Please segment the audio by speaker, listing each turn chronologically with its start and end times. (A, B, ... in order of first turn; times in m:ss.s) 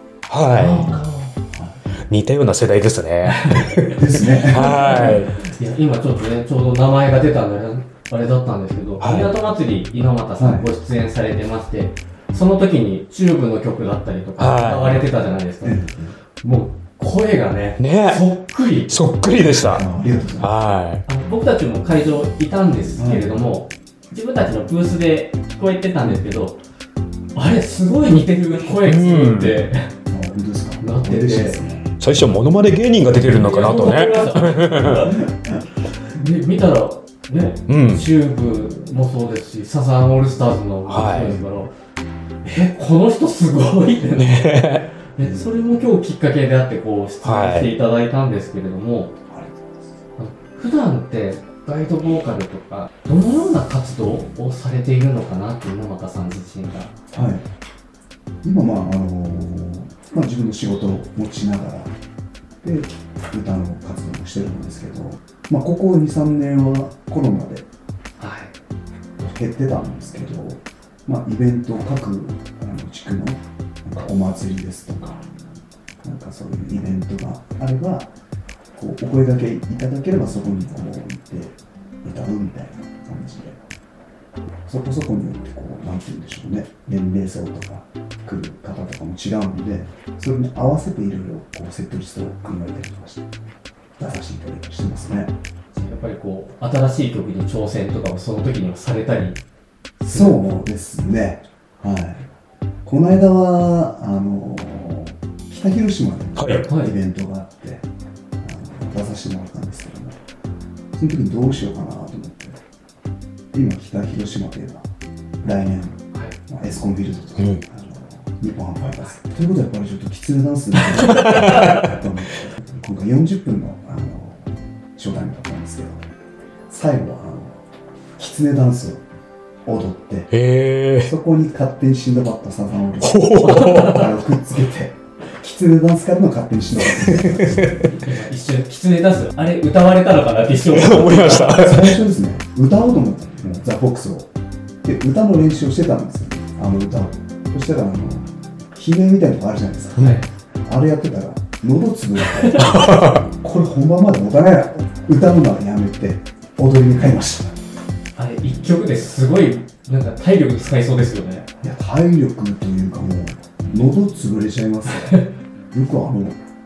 0:00.3-0:01.0 A
0:00.6-0:01.4 B
0:01.5-0:01.8 C
0:02.1-0:05.4 A
0:03.3-0:03.9 B
0:04.0-0:05.2 C
0:04.5-0:15.8 B
0:09.0-0:09.3 A
0:10.4-0:10.7 C
0:14.4-0:15.0 A
0:15.6-0:16.2 C
0:16.4-0:19.0 B
0:17.8-0:18.2 A
0:18.9-0:19.8 A
0:19.6-0:20.5 C
0:20.4-0:21.0 A
0:21.1-0:26.6 B
0:23.0-0:23.3 C
0:27.4-0:29.9 B
0:28.7-0:29.6 A
0:30.1-0:31.9 C
0:30.8-0:31.6 B
0:32.0-0:35.1 A
0:33.2-0:35.3 B
0:35.1-0:35.6 C
0:36.0-0:41.7 B
0:37.7-0:38.1 A
0:40.9-0:41.4 A
0:42.4-0:49.1 B
0:44.2-0:44.9 A
0:45.2-0:45.6 C
0:47.2-0:47.7 A
0:49.3-0:50.0 C
0:50.2-0:56.9 B
0:57.1-0:57.4 C
0:58.4-1:02.0 C
1:02.6-1:07.7 C
1:08.2-1:08.5 B
1:09.2-1:15.2 C
1:16.0-1:18.1 C
1:18.8-1:23.6 C
1:24.7-1:33.3 C
1:34.0-1:35.4 C
1:35.7-1:39.4 B
1:40.0-1:42.3 C
1:40.1-1:40.4 B
1:42.8-1:47.9 C
1:46.4-1:46.7 A
1:46.6-1:46.9 B
1:48.4-1:50.2 C
1:50.9-1:52.6 C
1:53.5-1:54.9 C
1:55.4-2:06.0 C
2:01.0-2:01.8 A
2:06.7-2:07.6 C
2:08.2-2:09.0 C
2:09.6-2:10.3 C
2:10.3-2:11.1 A
2:11.0-2:17.9 C
2:13.0-2:14.1 A
2:17.0-2:17.8 A
2:17.8-2:21.6 B
2:20.7-2:22.0 A
2:21.3-2:24.3 C
2:24.8-2:37.6 C
2:30.0-2:30.2 B
2:32.4-2:32.8 B
2:32.6-2:33.2 A
2:38.2-2:41.5 B
2:41.6-2:45.2 C
2:45.7-2:46.4 C